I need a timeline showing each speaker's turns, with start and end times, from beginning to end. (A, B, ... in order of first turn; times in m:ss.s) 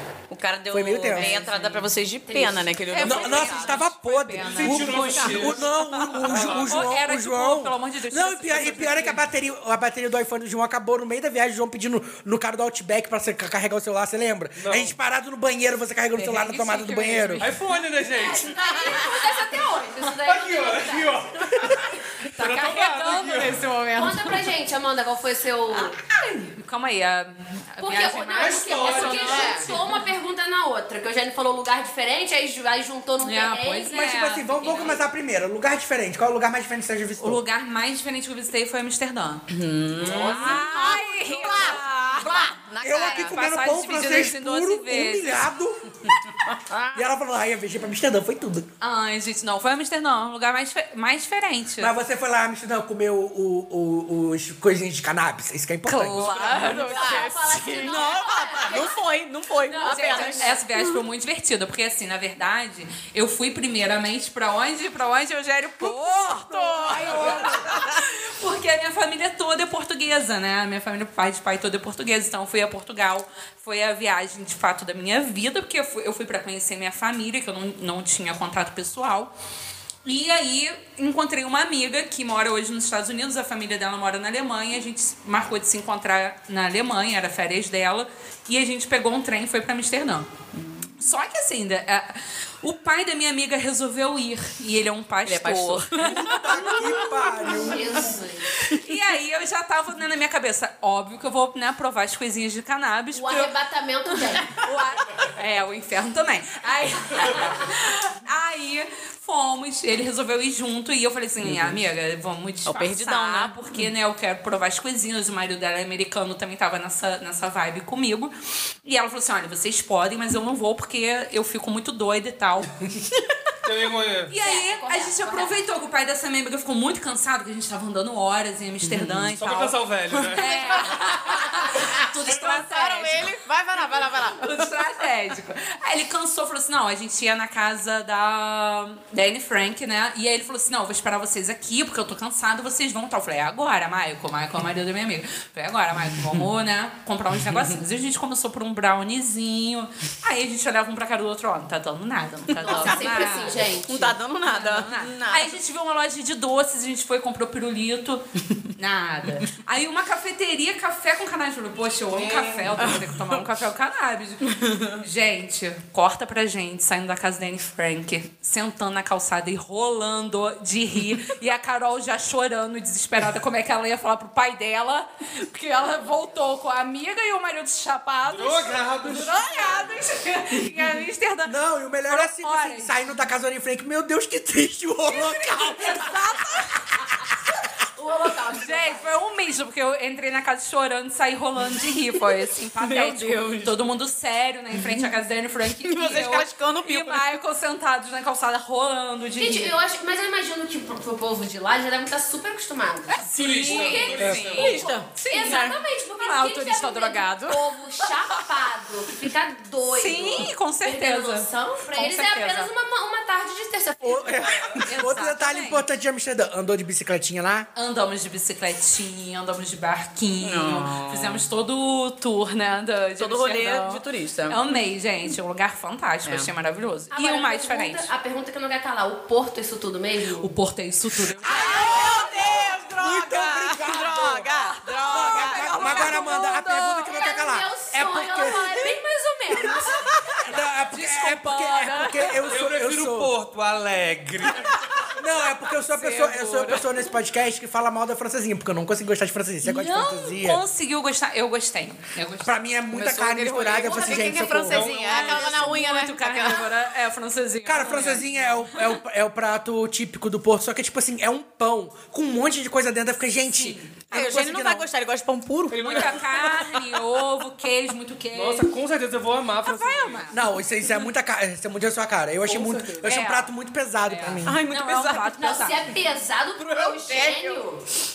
0:00.3-0:03.8 A
0:00.7-0:01.4 B
0:01.1-0:01.9 C
0:02.3-0:03.5 D
0:02.9-0:05.4 C
0:03.0-0:17.4 B
0:04.5-0:06.8 E
0:04.7-0:06.3 A
0:06.5-0:09.2 C
0:14.6-0:15.0 E
0:16.2-0:17.8 C
0:17.4-0:18.6 E
0:18.1-0:21.2 D
0:18.6-0:19.2 A
0:20.2-0:23.6 E
0:22.3-0:23.8 C
0:23.2-0:24.4 A
0:23.9-0:26.0 D
0:25.7-0:30.1 C
0:27.8-0:34.1 D
0:28.4-0:29.7 E
0:33.2-0:35.0 C
0:33.9-0:37.4 B
0:37.2-0:45.5 C
0:39.5-0:43.3 A
0:40.0-0:40.7 B
0:42.8-0:46.1 B
0:46.1-0:47.0 A
0:46.9-0:48.7 B
0:48.8-0:51.9 C
0:51.8-0:56.9 B
0:55.9-0:58.1 C
0:55.9-1:01.0 A
0:56.6-0:59.0 D
0:59.6-1:00.6 D
0:59.8-1:19.3 C
1:05.8-1:08.0 A
1:06.5-1:07.7 B
1:20.0-1:30.3 C
1:30.5-1:31.0 A
1:31.0-1:37.5 C
1:35.2-1:37.7 A
1:36.2-1:38.1 B
1:37.4-1:38.5 D
1:38.6-1:38.9 A
1:38.6-1:43.6 C
1:43.1-1:44.5 D
1:44.1-1:58.3 C
1:51.4-1:51.8 A
1:52.7-1:53.9 A
1:58.8-2:02.8 C
2:03.6-2:04.3 E
2:04.3-2:13.4 C
2:04.4-2:05.5 D
2:08.8-2:09.3 A
2:09.4-2:10.5 E
2:10.3-2:15.0 A
2:14.0-2:33.6 C
2:32.5-2:35.6 A
2:32.6-2:34.2 D
2:34.4-3:01.6 C
2:42.1-2:43.0 E
2:42.8-2:43.4 A
2:44.5-2:45.0 A
2:58.3-2:59.4 E
2:59.3-3:00.0 A
3:01.4-3:06.4 B
3:02.1-3:03.0 C
3:05.1-3:06.7 C
3:08.0-3:09.2 D
3:08.5-3:19.8 C
3:12.8-3:13.8 A
3:14.8-3:15.1 A
3:15.8-3:17.3 A
3:19.4-3:34.8 D
3:23.1-3:28.3 C
3:23.3-3:24.9 E
3:24.2-3:24.6 B
3:24.5-3:25.8 A
3:29.9-3:32.7 C
3:34.0-3:37.7 B
3:34.8-3:35.8 C
3:37.8-3:48.1 C
3:40.4-3:41.4 A
3:43.2-3:44.6 A
3:46.2-3:46.5 A
3:47.1-3:50.5 D
3:50.4-3:51.9 C
3:51.4-3:56.6 A
3:51.5-3:54.5 B
3:54.5-3:56.7 C
3:55.0-3:58.8 B
3:55.8-4:00.1 D
3:59.8-4:00.4 A
4:00.4-4:03.3 B
4:00.9-4:02.4 C
4:02.5-4:04.9 E
4:05.2-4:10.6 B
4:05.8-4:07.0 A
4:09.6-4:12.6 C
4:12.4-4:14.9 B
4:12.9-4:16.8 A
4:14.3-4:19.0 C
4:14.7-4:15.5 E
4:17.6-4:24.9 B
4:23.4-4:24.0 C
4:24.1-4:26.9 A
4:25.7-4:28.7 C
4:25.8-4:26.1 E
4:28.3-4:30.3 E
4:29.7-4:30.4 C
4:30.3-4:34.6 B
4:32.4-4:33.1 E
4:33.0-4:35.9 C
4:34.4-4:35.6 A
4:35.4-4:37.8 D
4:36.6-4:37.6 A